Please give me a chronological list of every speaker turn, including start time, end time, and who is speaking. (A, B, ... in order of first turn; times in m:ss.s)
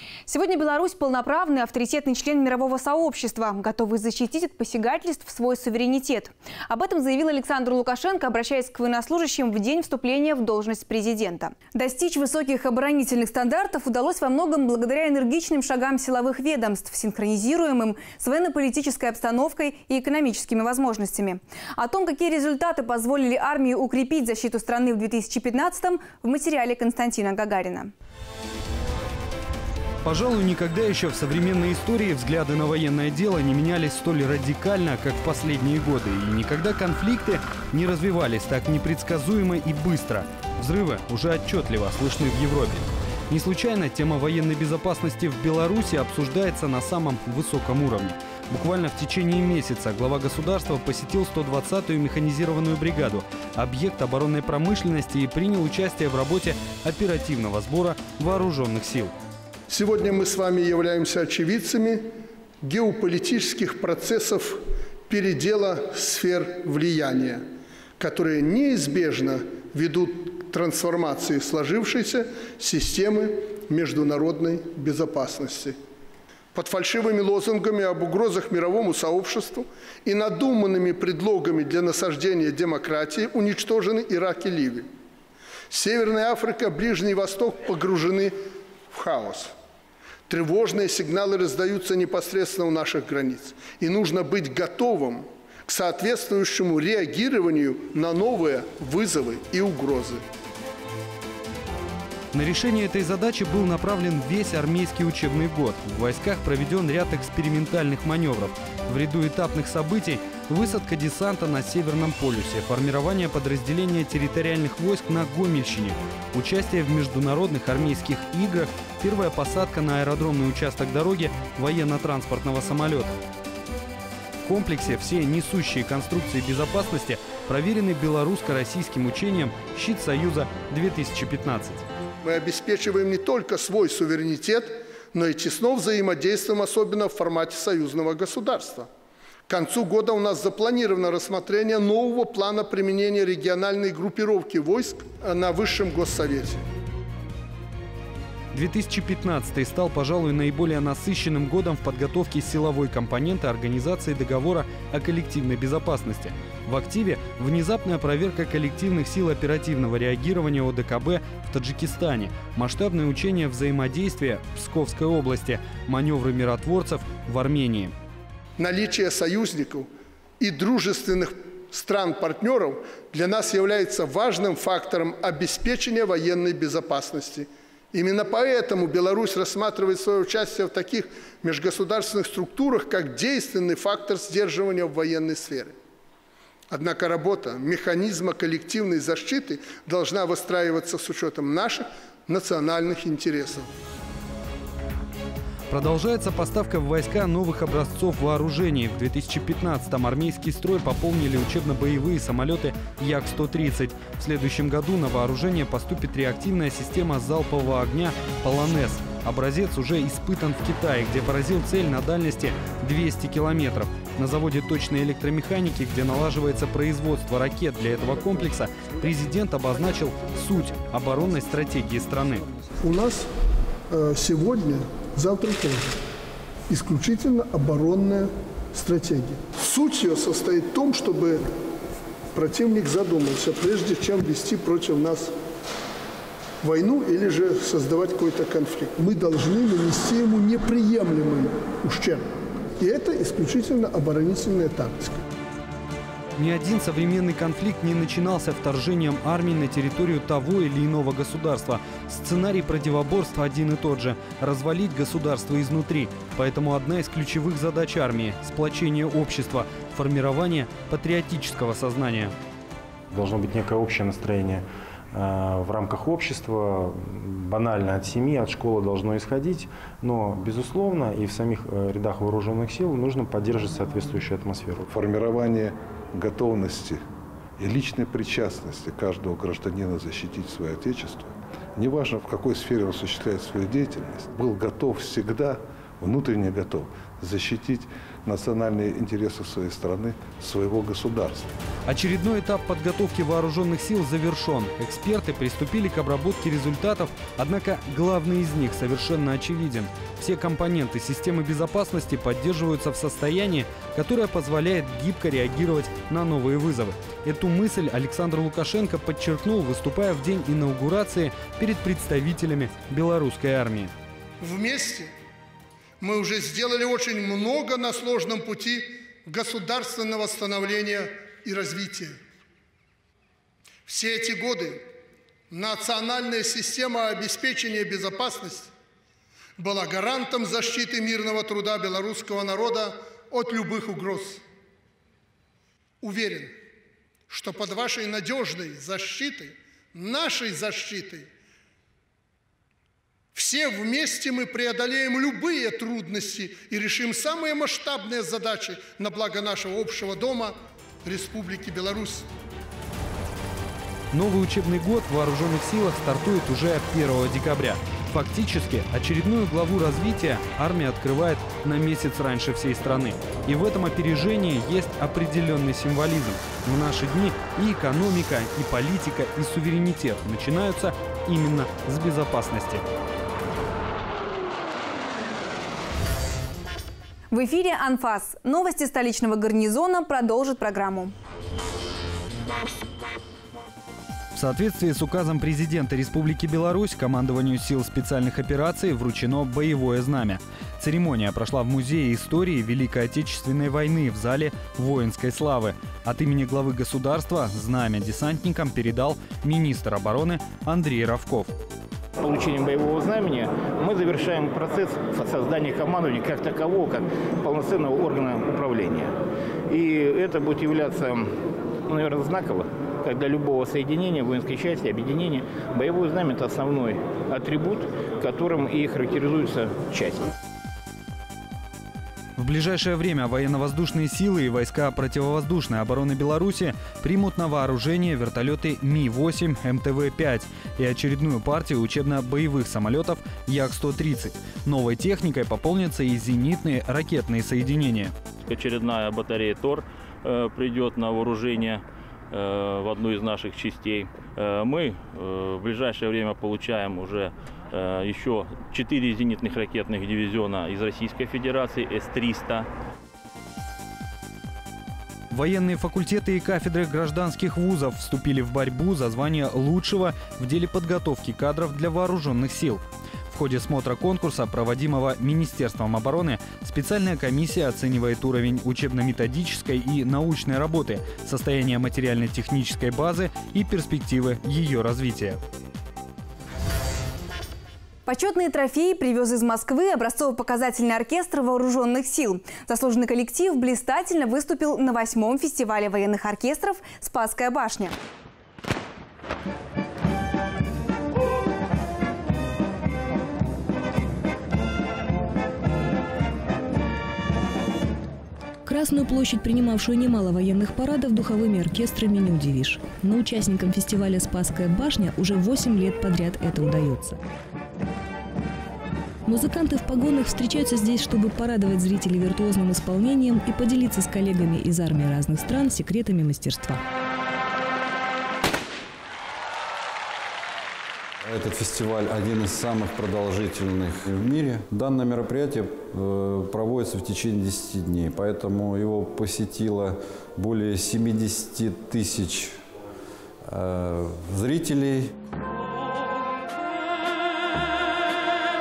0:00.3-0:27.9 A
0:30.0-0:59.1 B
0:59.7-1:02.0 C
1:02.6-1:07.4 C
1:08.0-1:15.8 C
1:16.5-1:24.9 C
1:25.7-1:28.3 C
1:28.9-1:29.5 C
1:30.3-1:40.2 C
1:42.3-2:03.2 B
2:04.4-2:11.8 B
2:12.2-2:18.9 C
2:19.5-2:26.6 C
2:28.5-2:47.9 B
2:48.6-2:49.9 C
2:50.4-3:05.8 C
3:06.7-3:13.7 C
3:15.7-3:42.5 B
3:42.8-3:43.3 C
3:43.9-3:46.0 C
3:46.7-3:51.4 C
3:52.3-3:55.3 C
3:56.6-4:02.2 C
4:02.8-4:05.2 C
4:06.4-4:22.3 B
4:23.1-4:34.8 D
4:34.9-4:37.0 E
4:37.6-4:51.5 E
4:51.9-5:13.9 B
5:14.4-5:15.1 C
5:16.0-5:22.2 C
5:23.9-5:24.8 C
5:25.5-5:28.7 C
5:29.6-5:34.4 C
5:36.0-5:36.5 C
5:37.3-5:41.3 C
5:43.4-5:52.3 C
5:54.1-6:12.8 B
6:17.3-6:21.1 A
6:24.4-6:41.5 B
6:42.2-6:49.1 F
6:49.7-6:51.3 F
6:51.9-7:00.3 F
7:02.4-7:18.1 B
7:18.5-7:32.7 G
7:35.3-7:55.4 B
7:58.1-8:08.0 A
8:18.6-8:27.2 H
8:29.3-8:36.8 H
8:41.2-8:52.6 I
8:53.4-8:55.1 I